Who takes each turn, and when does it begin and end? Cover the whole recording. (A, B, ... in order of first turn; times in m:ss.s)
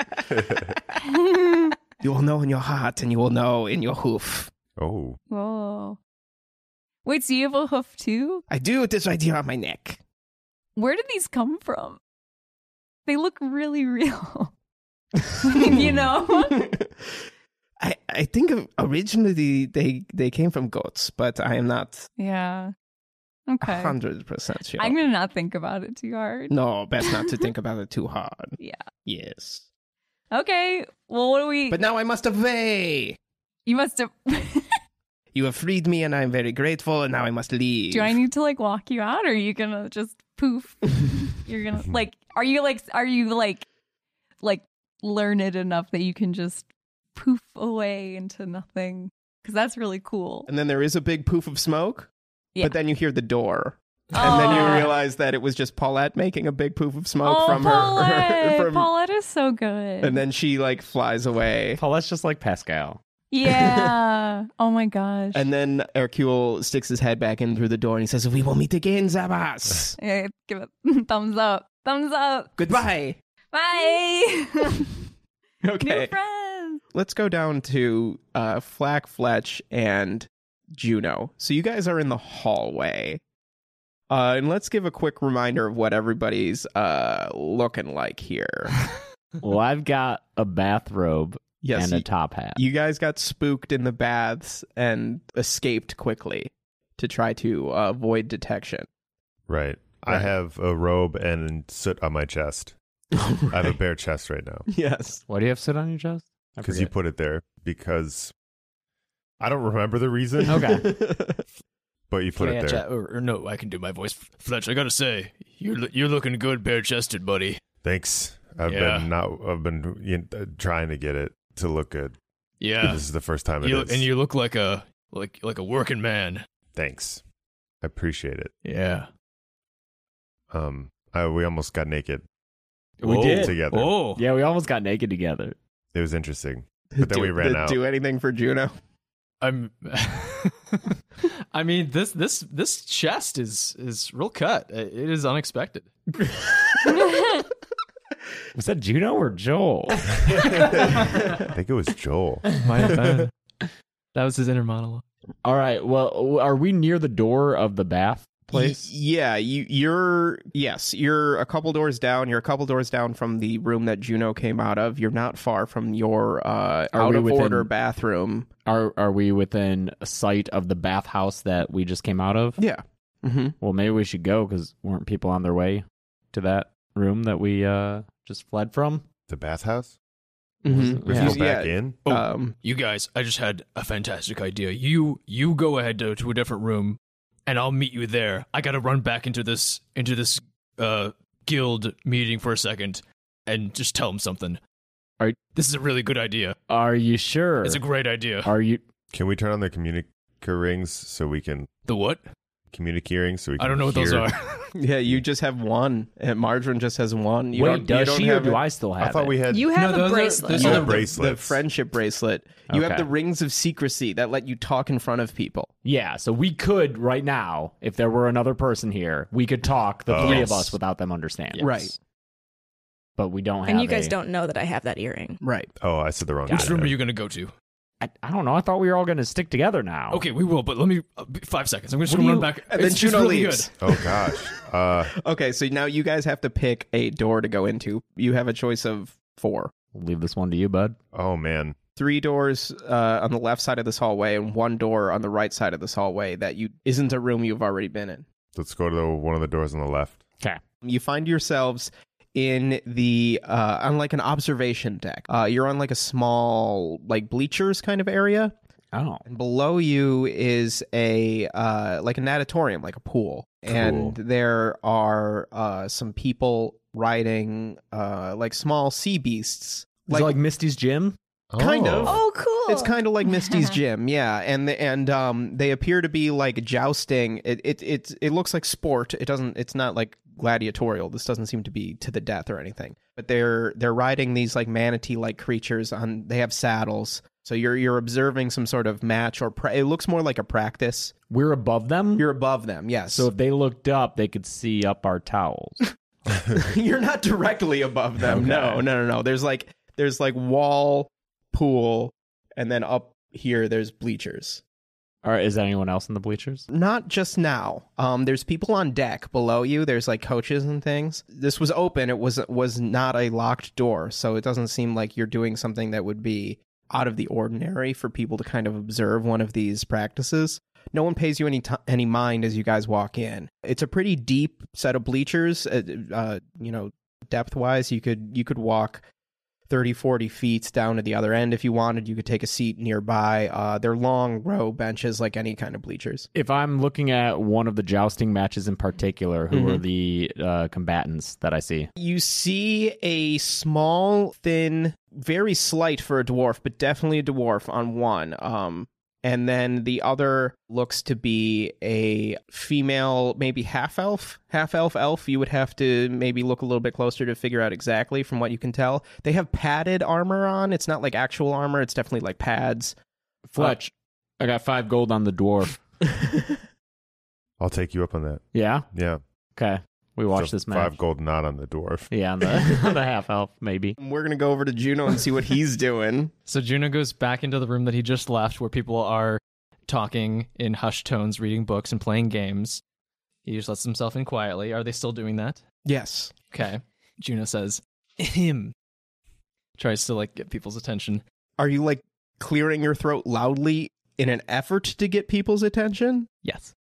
0:00.3-0:00.6 A
0:01.0-0:01.8 B
0:02.0-0:04.5 C
0:04.8-0:05.2 A
0:05.3-0:06.0 B
0:07.0-0:08.4 B
0:08.5-0:10.0 C
0:10.8-0:12.0 B
0:13.0-0:14.5 B
0:15.4-0:16.6 B
0:15.7-0:17.2 C
0:15.7-0:16.1 A
0:17.8-0:22.1 C
0:22.2-0:22.7 B
0:23.5-0:23.9 B
0:23.6-0:25.0 C
0:24.8-0:27.4 B
0:26.5-0:29.6 C
0:28.6-0:28.8 B
0:30.3-0:31.8 B
0:31.7-0:33.2 C
0:33.6-0:34.8 B
0:35.3-0:38.2 C
0:37.9-0:43.6 B
0:44.4-0:50.5 B
0:50.5-0:58.9 C
0:54.1-0:54.9 B
0:57.2-1:00.2 B
1:00.0-1:01.8 C
1:01.8-1:03.0 D
1:03.3-1:05.4 B
1:03.4-1:03.9 C
1:05.3-1:10.0 C
1:10.0-1:12.5 B
1:12.6-1:13.2 C
1:13.5-1:14.9 B
1:15.6-1:16.1 C
1:15.8-1:16.8 B
1:16.9-1:23.2 C
1:24.1-1:28.8 C
1:29.4-1:32.6 D
1:31.6-1:38.9 C
1:39.5-1:42.7 A
1:43.5-1:44.7 A
1:44.7-1:45.2 C
1:45.3-1:46.9 D
1:46.6-1:48.3 A
1:49.4-1:50.8 A
1:50.5-1:51.4 C
1:50.5-1:50.9 D
1:52.1-1:52.8 A
1:52.4-1:57.6 E
1:57.8-2:02.2 A
1:58.7-1:59.1 E
2:02.6-2:03.0 E
2:02.8-2:04.1 A
2:03.6-2:06.4 E
2:06.7-2:07.2 A
2:07.8-2:08.5 A
2:08.6-2:09.1 E
2:10.5-2:12.2 A
2:13.0-2:15.6 D
2:13.0-2:14.2 E
2:13.1-2:14.0 A
2:15.9-2:17.8 A
2:16.9-2:18.7 C
2:19.4-2:20.9 E
2:21.5-2:25.9 E
2:28.5-2:31.4 D
2:30.7-2:32.4 A
2:32.5-2:32.9 D
2:32.6-2:33.3 E
2:34.1-2:35.0 E
2:35.4-2:38.8 D
2:38.5-2:48.5 C
2:46.9-2:47.7 D
2:48.6-2:52.6 D
2:52.6-2:53.6 C
2:53.6-2:59.0 D
2:59.3-3:00.0 A
3:00.6-3:02.5 C
3:00.7-3:01.4 D
3:01.0-3:02.0 A
3:02.1-3:14.6 E
3:15.5-3:16.6 E
3:16.7-3:17.8 D
3:17.6-3:18.5 E
3:18.4-3:18.8 D
3:19.1-3:21.7 A
3:21.8-3:22.2 E
3:22.7-3:24.3 A
3:23.6-3:24.7 E
3:24.8-3:28.6 C
3:27.5-3:29.4 D
3:29.0-3:29.7 A
3:29.5-3:31.0 F
3:29.7-3:31.1 E
3:30.5-3:35.7 C
3:30.6-3:31.6 A
3:32.7-3:33.1 D
3:35.8-3:41.9 D
3:40.0-3:40.7 A
3:40.2-3:40.7 E
3:41.6-3:41.9 C
3:43.2-3:44.2 D
3:43.6-3:45.4 F
3:45.4-3:45.7 C
3:45.8-3:46.9 A
3:46.5-3:46.8 D
3:46.5-3:47.5 E
3:48.0-3:50.2 D
3:50.1-3:53.7 E
3:52.1-3:52.4 D
3:52.7-3:54.5 C
3:53.8-3:55.1 A
3:55.1-3:59.7 C
3:59.9-4:01.0 D
4:01.1-4:01.8 A
4:02.0-4:08.2 C
4:08.5-4:10.3 A
4:10.8-4:18.5 C
4:18.9-4:19.2 D
4:19.3-4:30.4 C
4:23.7-4:24.1 A
4:30.0-4:31.2 D
4:31.5-4:32.2 A
4:31.6-4:51.1 C
4:32.0-4:33.0 F
4:51.3-4:52.3 D
4:52.2-4:53.3 C
4:53.1-4:55.8 D
4:56.5-5:04.6 C
4:58.3-4:58.8 D
5:05.2-5:06.6 D
5:06.7-5:29.0 C
5:29.7-5:36.3 C
5:36.3-5:41.9 D
5:39.5-5:39.8 C
5:42.0-6:03.0 C
6:03.5-6:05.8 D
6:07.6-6:09.2 A
6:08.5-6:08.9 D
6:09.6-6:11.0 D
6:10.3-6:12.1 A
6:12.1-6:14.0 D
6:14.0-6:16.3 C
6:16.5-6:22.8 E
6:23.4-6:25.6 E
6:25.8-6:26.3 C
6:26.5-6:28.7 E
6:29.8-6:31.2 E
6:31.6-6:36.3 C
6:36.4-6:36.7 E